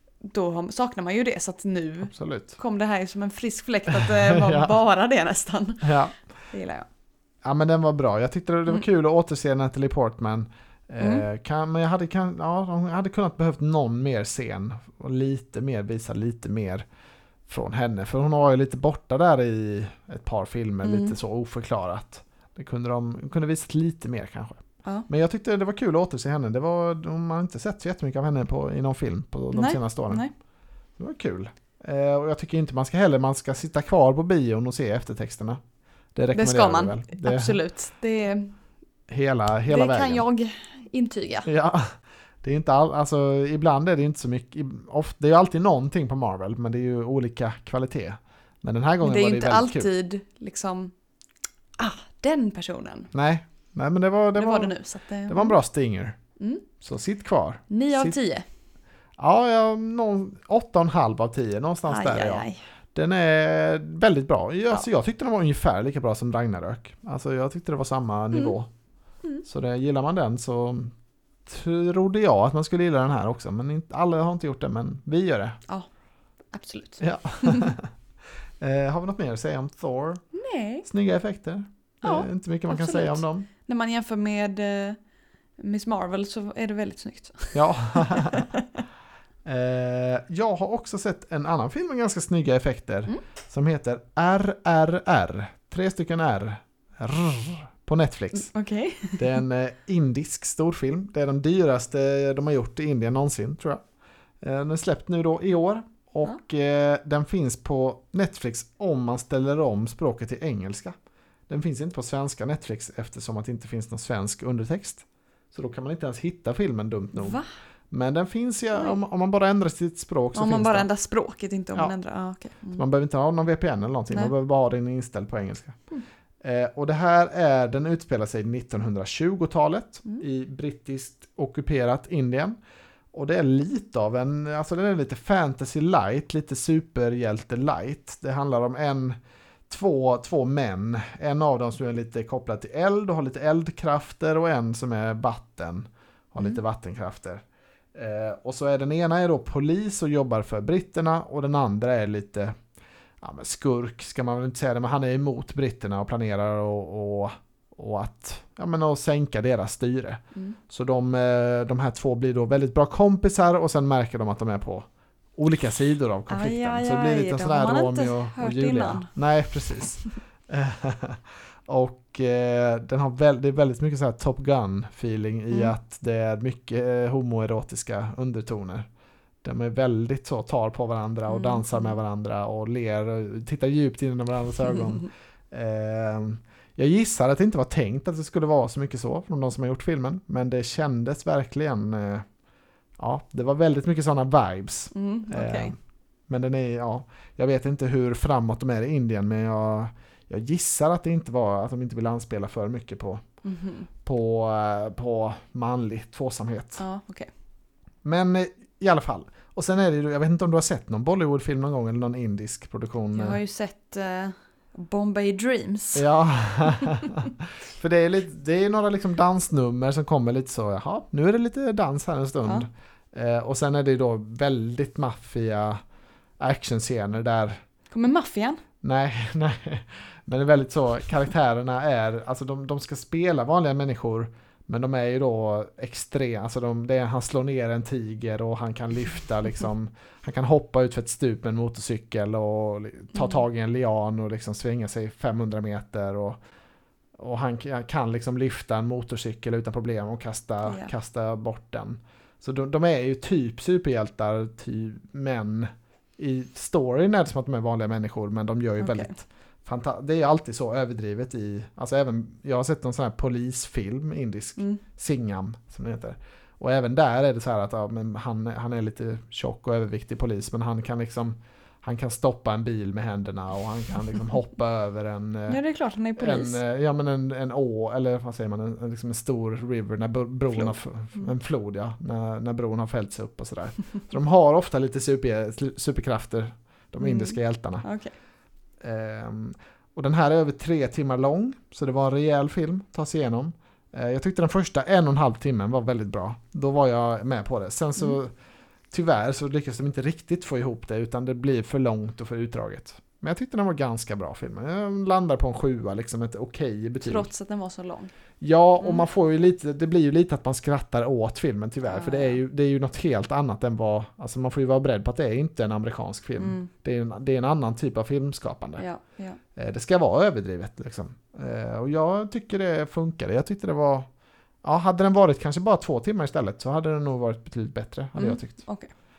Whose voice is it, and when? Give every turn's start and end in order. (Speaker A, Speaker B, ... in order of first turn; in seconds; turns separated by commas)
Speaker A: 0.2-6.0, Speaker B: 2.0-2.6, Speaker B: 3.9-4.8, Speaker B: 5.8-6.2, Speaker A: 6.5-6.9, Speaker B: 7.4-16.9, Speaker A: 11.0-11.2, Speaker B: 17.5-30.2, Speaker A: 20.8-21.2, Speaker A: 29.5-30.3, Speaker B: 31.0-35.6, Speaker B: 36.1-37.6, Speaker A: 36.3-38.5, Speaker B: 39.1-40.2, Speaker A: 39.7-41.5, Speaker B: 41.5-49.9, Speaker A: 49.0-50.9, Speaker A: 51.8-53.1, Speaker B: 53.1-54.8, Speaker A: 54.4-55.6, Speaker B: 55.3-56.2, Speaker A: 56.4-56.7, Speaker B: 56.8-58.2, Speaker A: 57.7-58.5, Speaker B: 59.2-68.7, Speaker A: 61.9-62.6, Speaker A: 68.3-68.6, Speaker B: 69.5-70.9, Speaker B: 71.5-75.6, Speaker A: 76.5-77.8, Speaker B: 77.0-77.9, Speaker B: 78.6-80.2, Speaker A: 80.3-80.9, Speaker B: 80.8-83.5, Speaker A: 82.0-85.0, Speaker A: 85.6-88.7, Speaker B: 87.5-88.5, Speaker B: 89.5-98.5, Speaker A: 98.4-99.4, Speaker B: 99.2-103.8, Speaker B: 104.4-111.0, Speaker B: 111.5-120.9, Speaker A: 117.2-117.5, Speaker A: 120.3-122.8, Speaker B: 122.7-125.8, Speaker B: 126.4-132.6, Speaker B: 133.1-139.2, Speaker B: 139.7-147.4, Speaker B: 147.9-152.6, Speaker B: 153.2-178.9, Speaker A: 166.3-169.1, Speaker B: 179.4-192.3, Speaker A: 181.3-182.0, Speaker A: 184.7-185.0, Speaker B: 193.0-195.8, Speaker A: 194.9-195.7, Speaker B: 196.3-203.2, Speaker A: 203.4-203.9, Speaker B: 204.0-206.8, Speaker A: 206.8-207.3, Speaker B: 208.0-213.4, Speaker A: 213.1-216.1, Speaker B: 215.9-225.8, Speaker B: 226.4-227.6, Speaker A: 227.9-228.6, Speaker B: 228.8-246.4, Speaker A: 243.1-243.4, Speaker B: 247.2-275.6, Speaker A: 250.7-250.9, Speaker A: 258.8-259.1, Speaker A: 275.5-276.6, Speaker B: 276.2-287.9, Speaker A: 280.5-281.3, Speaker A: 287.0-288.1, Speaker B: 288.8-298.3, Speaker B: 298.9-307.3, Speaker A: 307.1-308.1, Speaker B: 308.4-318.8, Speaker A: 311.8-312.4, Speaker A: 316.4-316.7, Speaker A: 318.8-319.4, Speaker B: 319.6-324.1, Speaker B: 324.6-328.6, Speaker A: 328.2-328.9